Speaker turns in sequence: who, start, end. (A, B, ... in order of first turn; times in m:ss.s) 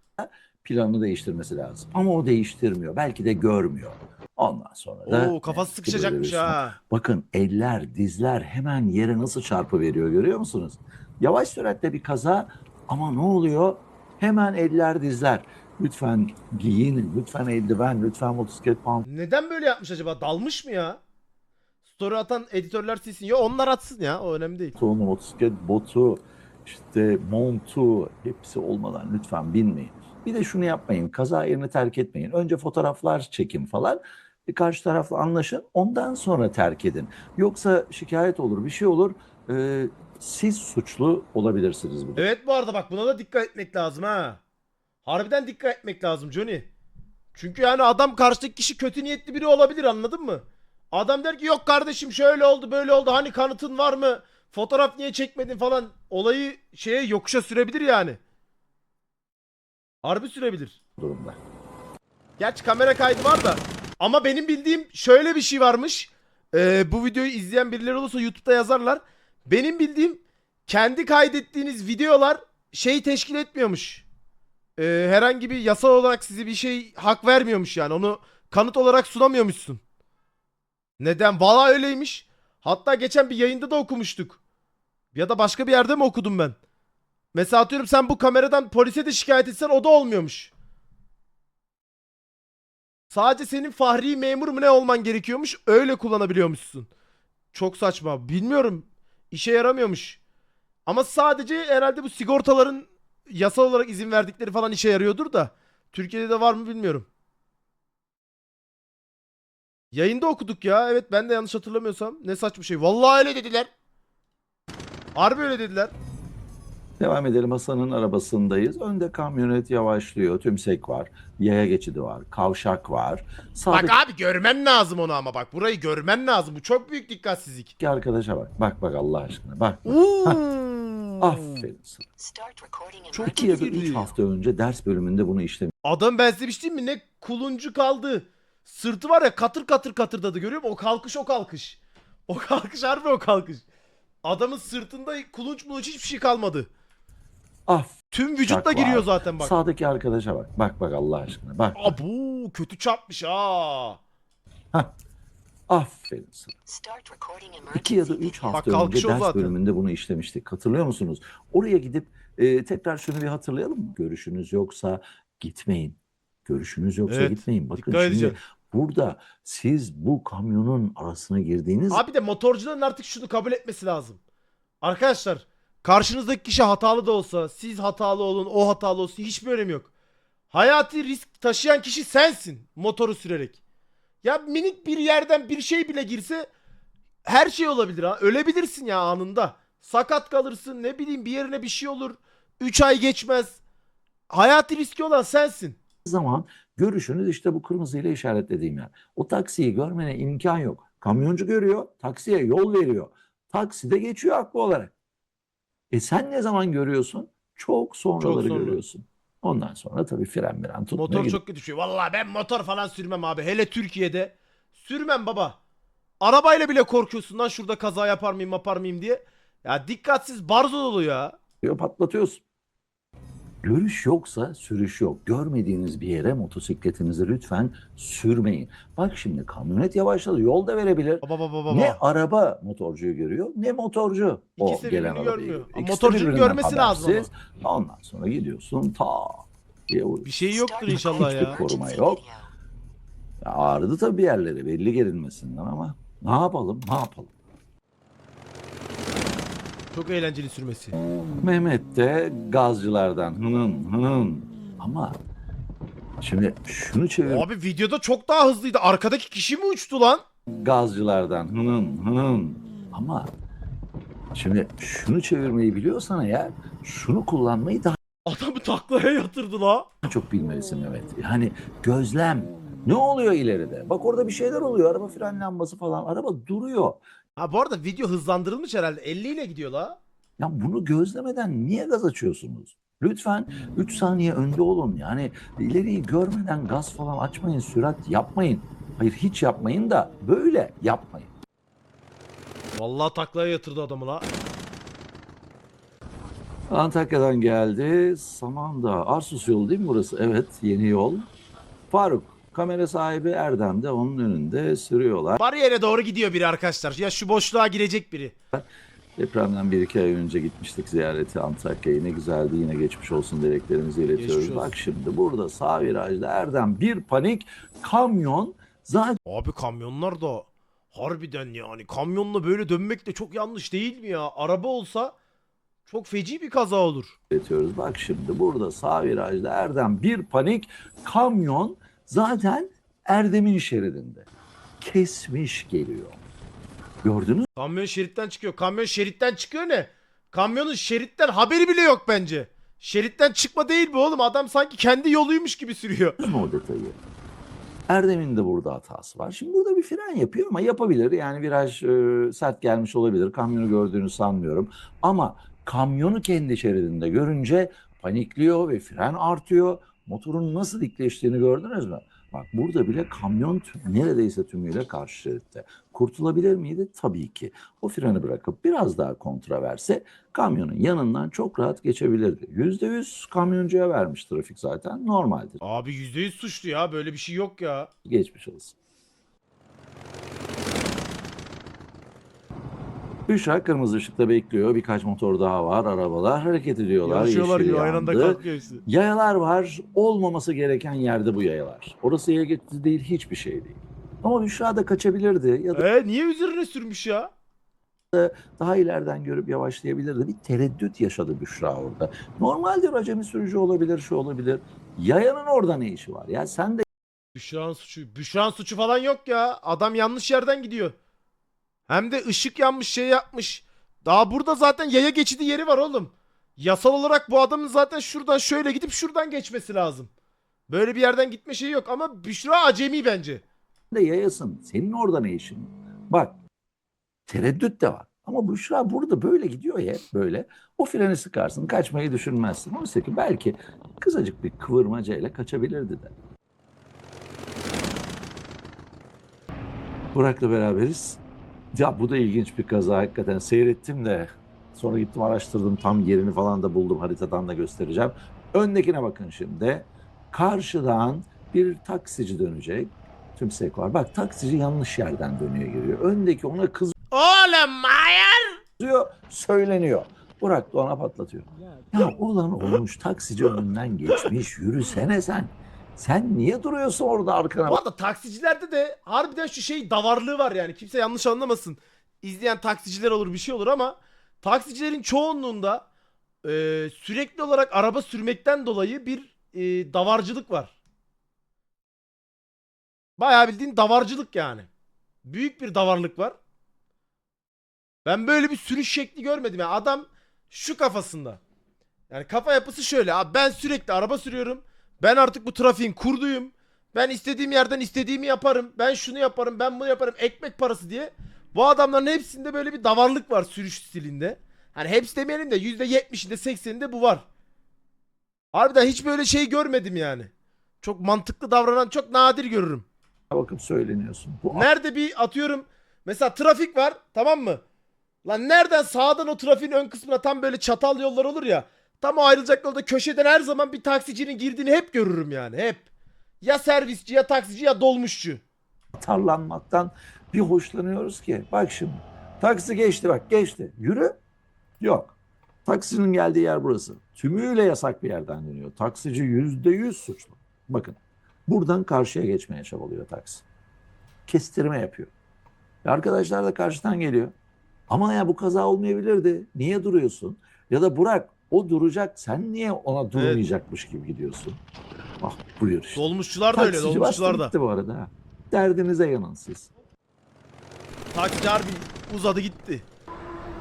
0:00.2-0:19.1 A
0:05.1-0:06.8 B
0:19.1-0:21.0 B
0:21.9-0:24.8 B
0:24.8-0:42.3 A
0:42.2-0:44.4 B
0:45.0-0:46.7 B
0:47.3-0:58.2 B
1:00.0-1:00.8 B
1:01.0-1:01.4 A
1:02.4-1:14.1 B
1:14.8-1:19.8 B
1:21.0-1:24.4 B
1:25.1-1:26.6 B
1:27.3-1:30.5 B
1:33.1-1:36.9 B
1:37.5-1:40.2 B
1:40.9-1:47.1 B
1:49.9-1:53.7 B
1:55.2-1:55.9 B
1:57.0-2:04.0 A
2:03.7-2:07.7 B
2:07.8-2:10.4 A
2:09.9-2:11.7 B
2:11.2-2:12.1 A
2:12.2-2:14.2 C
2:13.1-2:14.0 B
2:13.2-2:15.7 A
2:15.8-2:23.6 B
2:24.2-2:26.7 B
2:27.7-2:32.0 A
2:28.1-2:29.6 B
2:31.8-2:34.0 B
2:35.7-2:36.6 A
2:36.7-2:38.8 C
2:37.7-2:52.0 A
2:38.5-2:39.6 B
2:47.1-2:48.4 B
2:51.9-2:54.2 B
2:54.8-2:59.9 B
3:00.5-3:03.6 B
3:04.2-3:06.5 B
3:07.2-3:13.6 B
3:14.3-3:15.8 B
3:16.0-3:24.9 A
3:25.9-3:31.4 A
3:28.2-3:28.8 B
3:31.0-3:35.6 B
3:36.2-3:41.4 B
3:41.6-3:42.4 A
3:43.6-4:00.3 A
3:51.2-3:52.0 B
3:54.6-3:57.3 B
4:00.2-4:01.6 B
4:00.5-4:02.5 C
4:00.9-4:02.2 A
4:03.4-4:07.3 A
4:09.9-4:11.0 B
4:11.4-4:15.2 A
4:16.2-4:17.5 A
4:17.2-4:20.2 B
4:20.6-4:23.3 A
4:24.4-4:28.0 A
4:28.3-4:29.9 B
4:30.0-4:37.0 A
4:37.4-4:40.0 B
4:40.4-4:51.3 A
4:52.8-4:54.3 B
4:56.7-5:01.3 A
5:01.9-5:05.4 A
5:05.4-5:08.4 B
5:08.5-5:19.2 A
5:14.2-5:14.8 B
5:19.2-5:25.2 B
5:25.9-5:27.2 B
5:27.3-5:34.3 A
5:34.8-5:36.2 A
5:37.0-5:37.5 A
5:37.6-5:46.2 B
5:46.2-5:47.0 A
5:47.9-6:15.6 A
6:15.6-6:17.9 B
6:18.0-6:18.7 A
6:23.3-6:35.9 A
6:27.0-6:28.8 B
6:35.7-6:37.3 B
6:38.1-6:46.8 A
6:47.3-6:51.0 B
6:51.9-7:00.1 B
7:00.7-7:03.4 B
7:03.9-7:06.4 A
7:07.3-7:16.1 A
7:20.1-7:21.2 A
7:21.7-7:36.9 A
7:37.1-7:38.6 B
7:38.8-7:47.8 A
7:47.7-7:55.9 B
7:56.4-8:00.7 B
8:03.2-8:04.7 B
8:05.2-8:06.4 B
8:08.0-8:11.4 B
8:12.1-8:27.2 B
8:28.5-8:30.3 B
8:30.8-8:32.9 B
8:33.3-8:34.7 A
8:34.5-8:37.6 B
8:38.2-8:45.9 B
8:46.4-8:48.4 B
8:49.0-8:54.2 A
8:54.8-9:03.5 A
9:04.3-9:05.1 A
9:05.8-9:07.4 A
9:07.9-9:14.6 A
9:13.2-9:13.4 B
9:15.2-9:19.7 A
9:16.0-9:17.5 B
9:21.1-9:22.9 B